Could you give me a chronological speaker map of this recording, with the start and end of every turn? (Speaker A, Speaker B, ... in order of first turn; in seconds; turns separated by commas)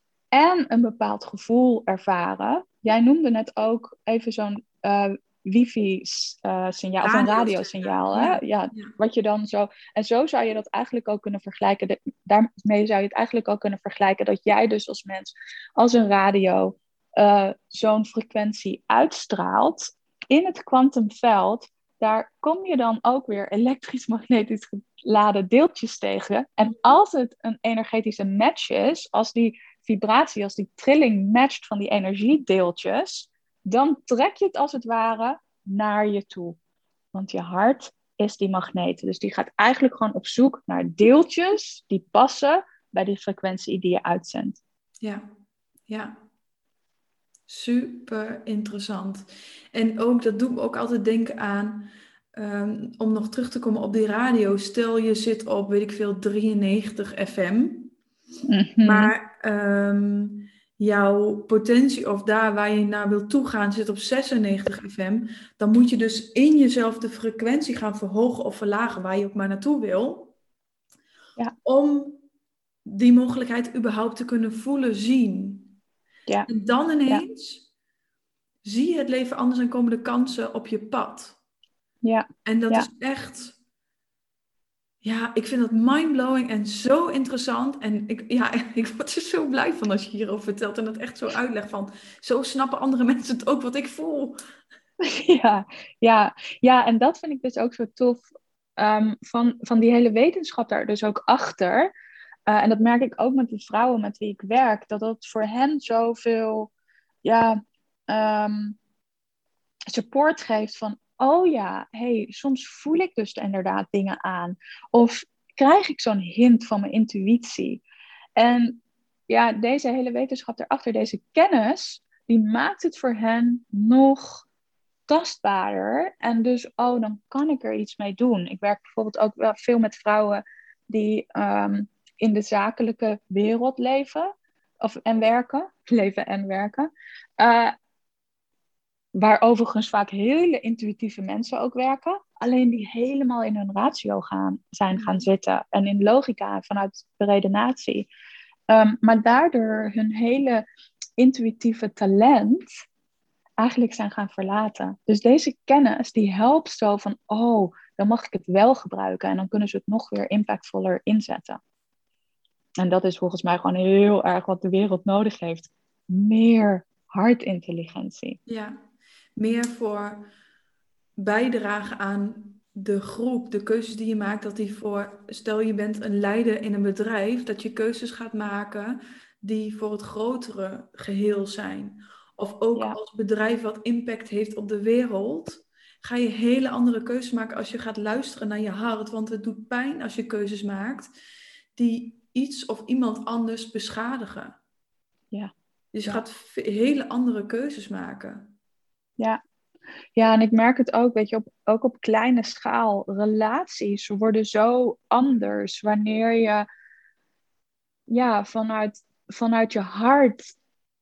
Speaker A: 0.3-36.6, Speaker B: 7.0-8.9, Speaker B: 26.7-26.9, Speaker A: 37.1-44.6, Speaker B: 45.0-45.3, Speaker B: 45.9-46.2, Speaker B: 47.5-57.9, Speaker A: 58.4-59.1, Speaker B: 58.8-70.3, Speaker B: 71.6-72.2, Speaker B: 72.8-75.7, Speaker B: 76.5-77.7, Speaker B: 78.6-81.4, Speaker A: 82.0-82.9, Speaker B: 82.4-83.5, Speaker B: 85.0-94.4, Speaker A: 95.0-98.2, Speaker A: 98.8-101.9, Speaker A: 102.5-106.7, Speaker A: 107.2-108.8, Speaker A: 109.9-117.8, Speaker A: 118.4-124.4, Speaker A: 125.1-137.7, Speaker A: 139.2-148.1, Speaker B: 144.9-145.3, Speaker A: 148.7-150.6, Speaker A: 151.2-152.7, Speaker A: 153.6-161.6, Speaker A: 162.8-168.4, Speaker B: 168.5-168.8, Speaker B: 169.3-170.3, Speaker B: 171.2-191.1, Speaker B: 191.7-194.6, Speaker B: 195.9-198.5, Speaker A: 200.2-206.7, Speaker A: 208.1-210.5